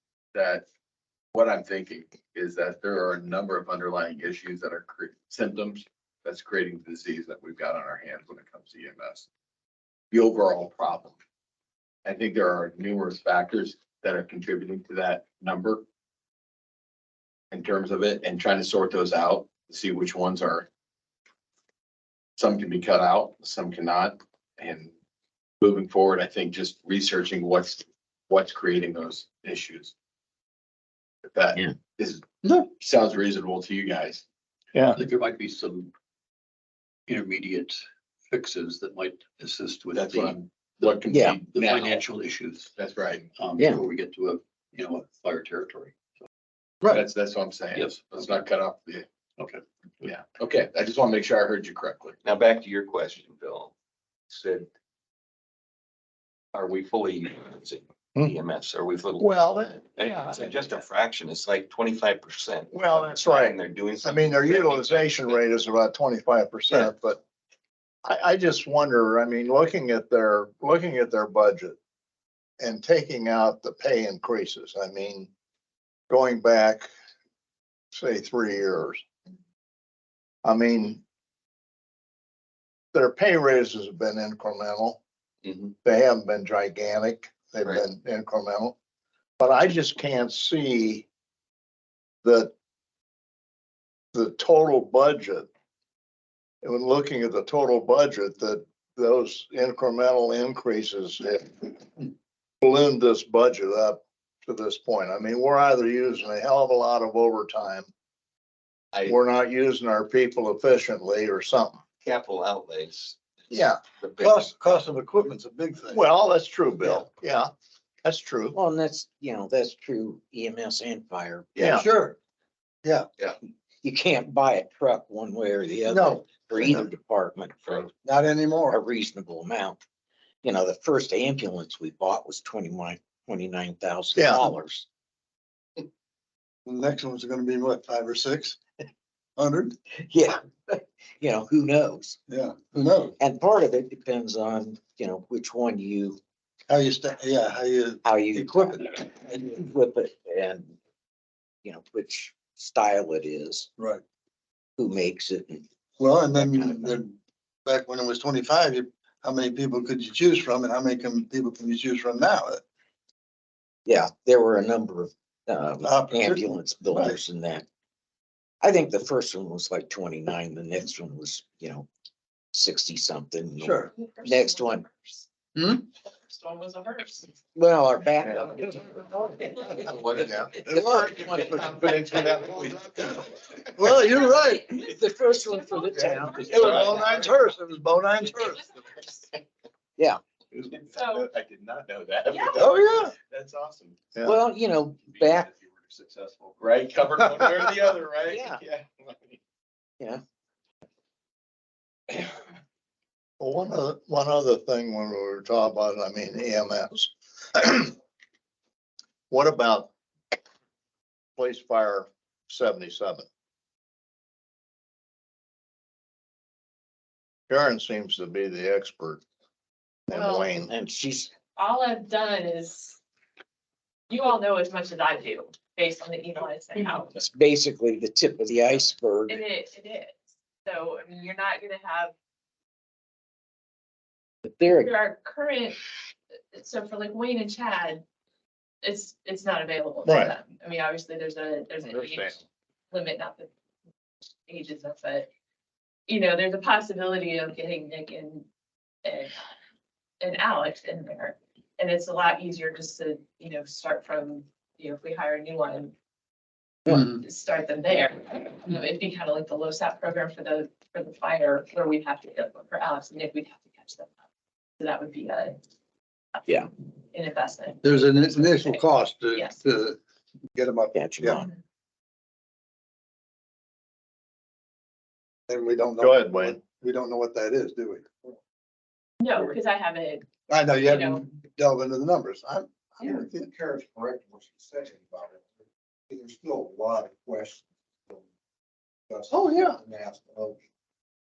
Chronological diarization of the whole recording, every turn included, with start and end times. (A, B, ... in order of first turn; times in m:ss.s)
0:00.3-0:00.6 A
0:01.3-0:09.3 A
0:10.1-0:11.2 A
0:12.0-0:15.8 A
0:17.5-0:20.7 A
0:22.4-0:24.9 A
0:25.6-0:29.9 A
0:31.3-0:32.3 A
0:32.8-0:34.2 A
0:34.7-0:35.0 B
0:34.9-0:35.9 C
0:37.1-0:42.7 C
0:39.9-0:42.0 A
0:41.1-0:41.4 D
0:42.8-0:43.3 A
0:43.3-0:46.2 C
0:46.8-0:49.0 A
0:47.7-0:48.4 C
0:49.4-0:50.1 C
0:50.0-0:52.2 A
0:52.2-0:53.7 E
0:54.3-0:54.7 E
0:56.5-0:59.3 E
0:59.2-1:00.8 B
1:00.0-1:05.2 E
1:02.7-1:07.2 B
1:08.0-1:11.8 B
1:12.6-1:15.3 B
1:16.1-1:16.9 B
1:17.9-1:19.0 B
1:20.4-1:21.0 B
1:22.9-1:25.0 B
1:25.8-1:28.7 B
1:29.4-1:31.1 B
1:32.2-1:32.5 B
1:34.1-1:35.5 B
1:36.6-1:42.1 B
1:42.6-1:47.9 B
1:49.0-1:51.8 B
1:52.0-1:53.2 E
1:53.5-1:53.8 B
1:54.0-1:54.5 E
1:54.2-1:56.0 F
1:55.9-1:57.5 B
1:58.0-1:58.6 B
1:58.5-2:01.5 D
2:01.6-2:01.9 B
2:01.6-2:02.2 F
2:03.8-2:07.9 D
2:05.9-2:06.9 F
2:08.0-2:08.8 F
2:08.7-2:09.8 D
2:10.4-2:14.9 D
2:14.2-2:14.4 B
2:16.6-2:18.6 F
2:19.4-2:19.8 F
2:20.0-2:22.2 D
2:22.3-2:23.2 F
2:23.2-2:26.2 D
2:26.7-2:28.8 F
2:28.0-2:30.8 D
2:31.6-2:33.7 D
2:34.8-2:35.7 D
2:36.0-2:42.6 F
2:36.4-2:37.0 D
2:43.9-2:47.7 D
2:45.8-2:47.2 F
2:48.6-2:51.9 D
2:52.5-2:54.9 D
2:53.6-2:53.9 F
2:53.9-2:55.3 G
2:55.6-2:55.8 F
2:56.1-2:57.3 G
2:57.6-2:59.9 D
2:59.9-3:00.3 E
3:00.1-3:01.3 B
3:00.5-3:01.8 D
3:01.0-3:03.3 A
3:03.8-3:04.7 F
3:04.5-3:07.0 G
3:04.6-3:07.0 D
3:06.5-3:07.1 A
3:06.5-3:08.2 B
3:06.6-3:08.7 F
3:10.5-3:14.0 A
3:10.9-3:11.3 G
3:12.3-3:12.7 G
3:12.6-3:13.1 F
3:14.2-3:15.5 D
3:15.2-3:19.4 A
3:18.3-3:18.6 D
3:23.4-3:27.9 B
3:29.3-3:29.9 B
3:31.4-3:33.3 B
3:37.5-3:39.2 B
3:40.1-3:40.7 B
3:40.1-3:40.5 G
3:40.7-3:41.3 D
3:41.6-3:43.0 G
3:44.1-3:47.1 G
3:47.1-3:49.4 D
3:49.3-3:52.1 G
3:54.4-3:54.9 D
3:54.7-3:55.8 G
3:56.5-3:58.0 G
3:58.8-4:03.5 G
4:00.1-4:00.3 B
4:01.8-4:02.4 B
4:04.5-4:05.3 G
4:06.1-4:08.5 G
4:09.0-4:09.6 G
4:10.2-4:15.9 G
4:16.9-4:24.1 G
4:24.8-4:25.6 G
4:27.1-4:29.6 G
4:27.8-4:30.0 F
4:30.6-4:31.4 F
4:30.9-4:31.5 D
4:35.5-4:38.3 F
4:36.0-4:36.6 B
4:39.2-4:40.3 G
4:40.5-4:43.5 F
4:40.8-4:41.2 G
4:43.0-4:45.5 H
4:46.1-4:48.2 H
4:49.1-4:50.6 H
4:49.3-4:49.8 F